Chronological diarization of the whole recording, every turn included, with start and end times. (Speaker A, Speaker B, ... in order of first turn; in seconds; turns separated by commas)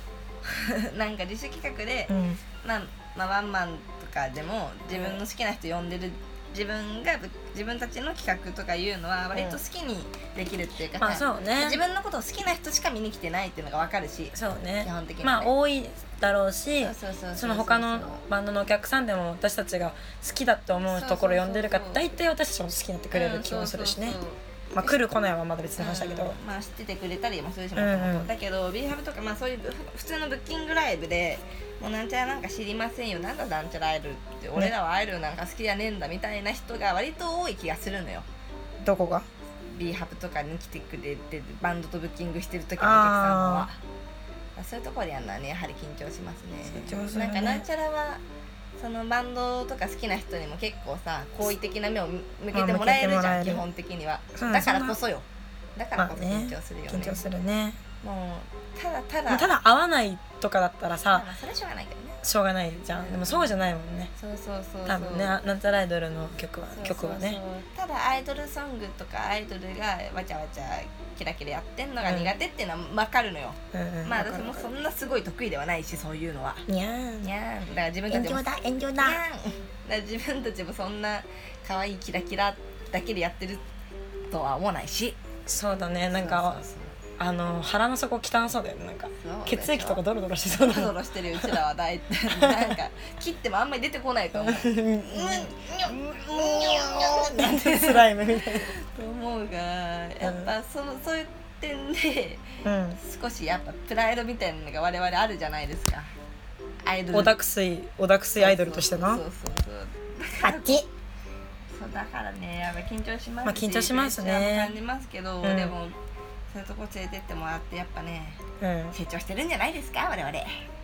Speaker A: 0.4-15.5, Speaker B: 2.1-2.4, Speaker B: 4.9-5.2, Speaker B: 9.3-9.6, Speaker B: 11.0-11.8, Speaker B: 14.3-24.2, Speaker A: 16.8-18.2, Speaker A: 20.9-22.1, Speaker A: 23.1-25.0, Speaker B: 24.7-26.4, Speaker A: 25.8-38.3, Speaker B: 27.8-28.3, Speaker B: 38.8-39.3, Speaker A: 39.7-43.8, Speaker B: 42.8-43.7, Speaker A: 44.6-48.2, Speaker B: 46.7-47.7, Speaker A: 48.8-57.2, Speaker B: 52.5-53.6, Speaker B: 54.4-55.0, Speaker B: 56.0-57.8, Speaker A: 58.0-59.5, Speaker B: 59.3-61.3, Speaker A: 61.1-62.2, Speaker B: 62.2-64.1, Speaker A: 62.9-63.5, Speaker A: 64.2-65.4, Speaker B: 64.9-67.4, Speaker A: 66.7-76.7, Speaker B: 72.0-72.3, Speaker B: 73.7-74.7, Speaker B: 76.7-77.3, Speaker A: 77.2-83.6, Speaker B: 78.1-79.2, Speaker A: 84.3-85.2, Speaker B: 85.5-86.6, Speaker A: 86.1-87.0, Speaker B: 87.2-91.6, Speaker A: 89.2-106.1, Speaker B: 92.4-92.7, Speaker B: 94.3-98.7, Speaker B: 100.2-100.5, Speaker B: 102.6-103.0, Speaker A: 106.8-107.4, Speaker B: 107.1-109.2, Speaker A: 108.4-110.9, Speaker B: 110.4-110.9, Speaker A: 111.7-116.0, Speaker B: 113.5-114.8, Speaker B: 115.4-115.8, Speaker A: 116.5-118.4, Speaker B: 118.6-119.0, Speaker A: 118.9-120.6